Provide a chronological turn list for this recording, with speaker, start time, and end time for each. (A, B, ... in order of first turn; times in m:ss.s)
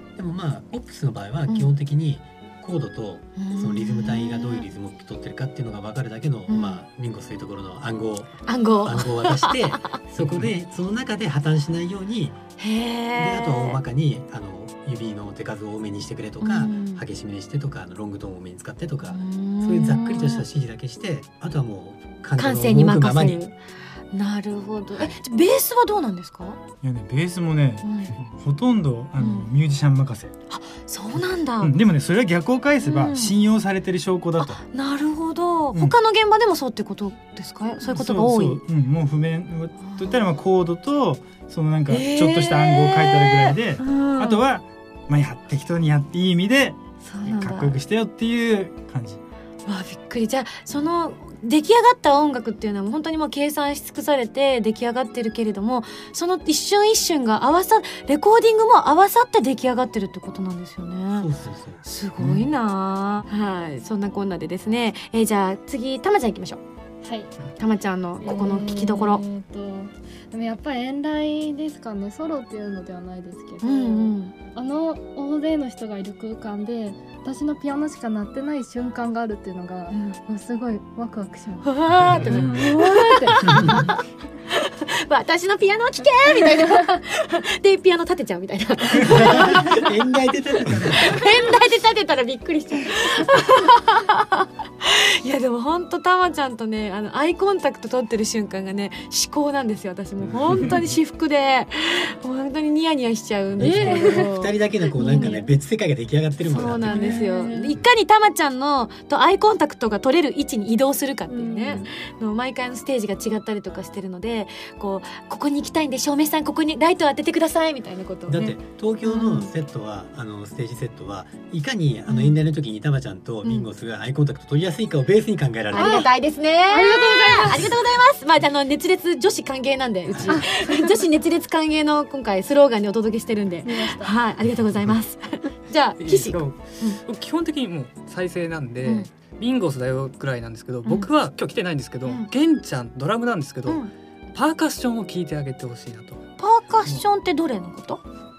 0:00.2-0:12.4 A
0:01.5-0:01.7 B
0:03.4-0:04.7 B
0:06.5-0:06.8 B
0:08.5-0:10.0 B
0:12.6-0:13.8 B
0:13.2-0:23.4 A
0:16.4-0:17.0 B
0:19.1-0:20.5 B
0:22.4-0:23.5 B
0:24.1-0:26.6 B
0:26.8-0:30.3 C
0:27.8-0:28.1 B
0:29.2-0:29.5 B
0:30.5-0:31.8 B
0:31.6-0:34.6 C
0:32.8-0:33.3 B
0:34.4-0:38.6 B
0:37.8-0:49.2 C
0:39.8-0:40.2 B
0:41.9-0:44.4 B
0:47.0-0:47.8 B
0:49.7-1:01.3 B
1:01.1-1:02.5 A
1:01.8-1:06.6 B
1:07.0-1:07.4 D
1:07.6-1:09.2 B
1:08.2-1:23.8 D
1:13.6-1:14.3 B
1:19.9-1:20.2 B
1:21.6-1:24.0 B
1:22.1-1:22.7 C
1:23.4-1:23.8 A
1:24.5-1:29.9 B
1:26.2-1:26.9 D
1:29.0-1:31.3 A
1:31.0-1:45.4 B
1:33.0-1:33.3 D
1:43.6-1:47.2 A
1:43.6-1:45.5 D
1:46.4-1:59.5 B
1:46.7-1:47.8 D
1:51.3-1:51.9 D
1:58.3-2:06.1 A
2:02.1-2:02.4 B
2:05.7-2:06.1 D
2:05.7-2:17.0 B
2:06.7-2:07.7 D
2:10.1-2:10.4 A
2:10.2-2:10.8 D
2:13.6-2:14.2 D
2:16.0-2:26.3 E
2:23.7-2:23.9 B
2:26.4-2:28.0 B